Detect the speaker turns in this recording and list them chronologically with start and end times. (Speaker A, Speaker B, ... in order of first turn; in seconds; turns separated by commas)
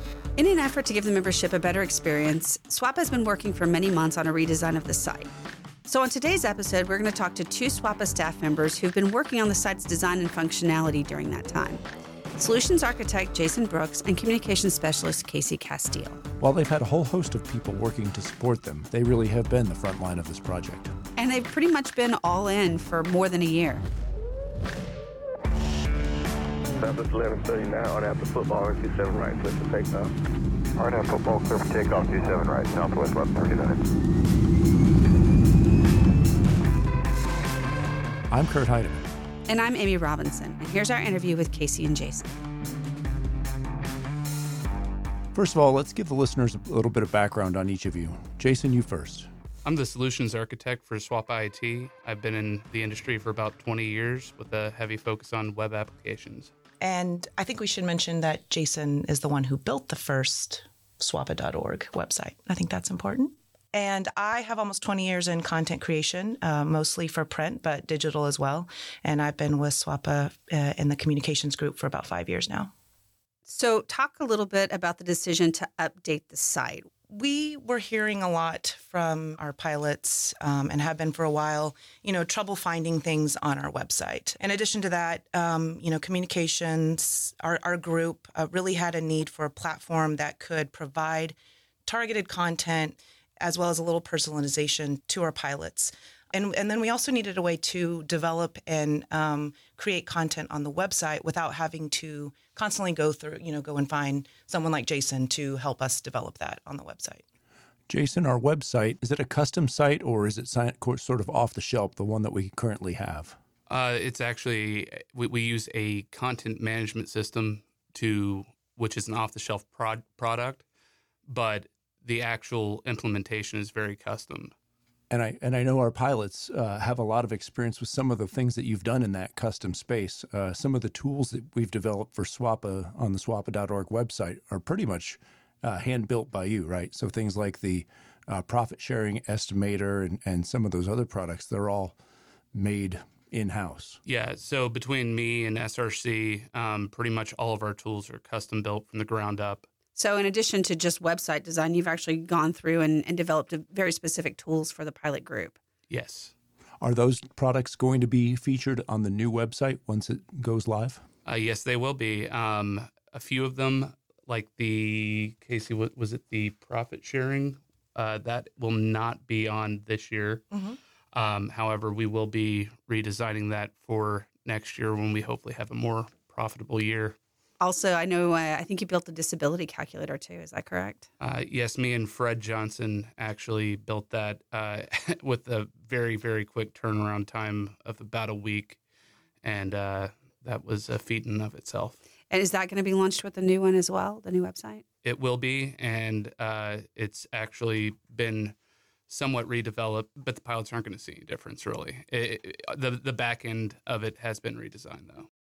Speaker A: 0.4-5.3, Speaker A: 5.8-11.8, Speaker A: 12.4-16.2, Speaker B: 16.4-20.9, Speaker A: 21.2-23.9, Speaker C: 26.8-30.1, Speaker C: 30.8-33.9, Speaker B: 38.3-39.1, Speaker A: 39.5-42.3, Speaker B: 45.3-49.3, Speaker D: 49.6-56.5, Speaker E: 56.8-72.7, Speaker A: 73.5-76.9, Speaker E: 77.1-91.4, Speaker E: 91.9-107.2, Speaker B: 107.9-113.4, Speaker D: 113.7-120.7, Speaker D: 121.3-124.5, Speaker B: 125.1-142.0, Speaker B: 142.5-144.0, Speaker D: 144.1-149.7, Speaker A: 149.9-155.6, Speaker D: 155.9-156.3, Speaker B: 156.8-161.0, Speaker D: 161.2-170.5, Speaker E: 170.5-170.8, Speaker D: 171.1-177.2, Speaker A: 177.6-181.1, Speaker D: 181.2-188.8, Speaker D: 189.4-192.0, Speaker A: 192.3-194.8, Speaker D: 195.0-198.6, Speaker D: 199.1-205.3